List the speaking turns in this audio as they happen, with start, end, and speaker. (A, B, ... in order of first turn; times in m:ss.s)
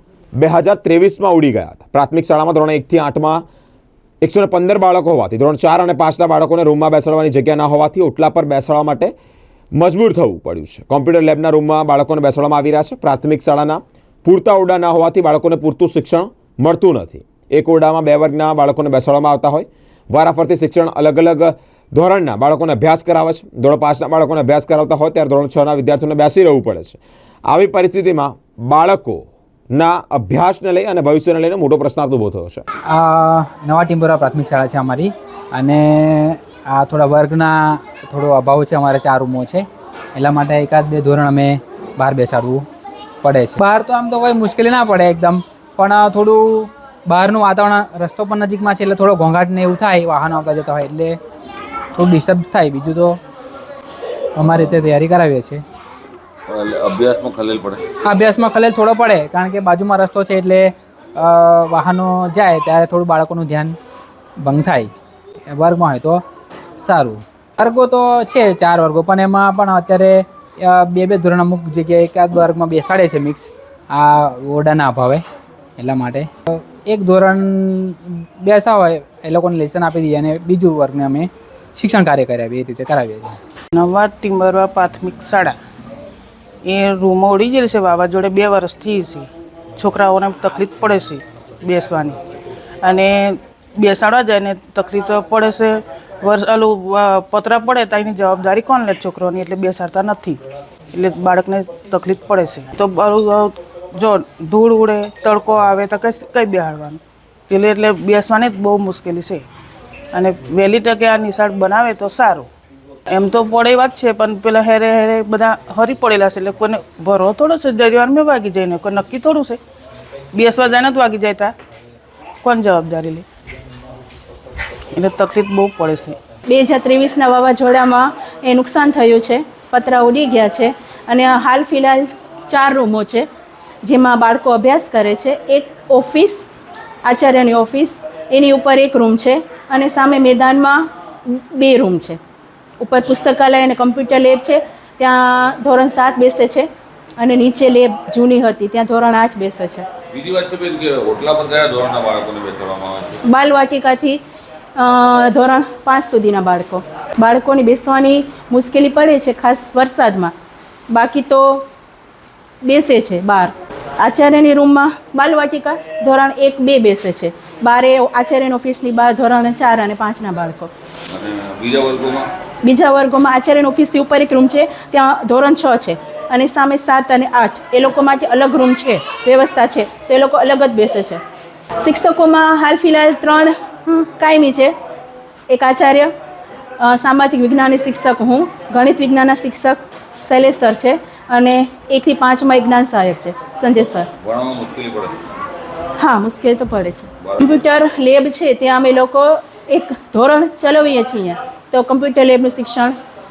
0:00.4-0:03.4 A
0:04.2-0:09.1 A
0:09.8-0:32.6 A
0:32.9-0:42.7 B
0:43.2-0:51.2 B
0:52.0-0:53.2 B
0:54.4-0:55.6 B
0:56.5-0:57.8 C
0:58.0-1:03.8 B
1:04.4-1:04.9 B
1:05.5-1:06.2 B
1:06.8-1:15.2 B
1:15.8-1:23.4 B
1:23.7-1:25.6 D
1:26.6-1:32.2 D
1:32.8-1:49.4 D
1:50.1-1:52.5 D
1:53.1-1:59.6 D
2:00.3-2:01.5 D
2:02.4-2:03.2 D
2:04.9-2:06.2 D
2:06.5-2:13.2 E
2:13.8-2:16.5 E
2:17.0-2:22.2 E
2:22.8-2:26.7 E
2:27.2-2:29.9 E
2:30.1-2:33.2 C
2:33.2-2:34.2 E
2:34.8-2:40.3 E
2:40.9-2:41.7 E
2:42.6-2:50.7 E
2:51.1-2:52.3 C
2:52.6-3:01.2 E
3:01.8-3:04.7 E
3:05.5-3:06.1 E
3:06.8-3:14.1 E
3:14.2-3:15.2 C
3:16.0-3:23.0 E
3:17.2-3:17.5 C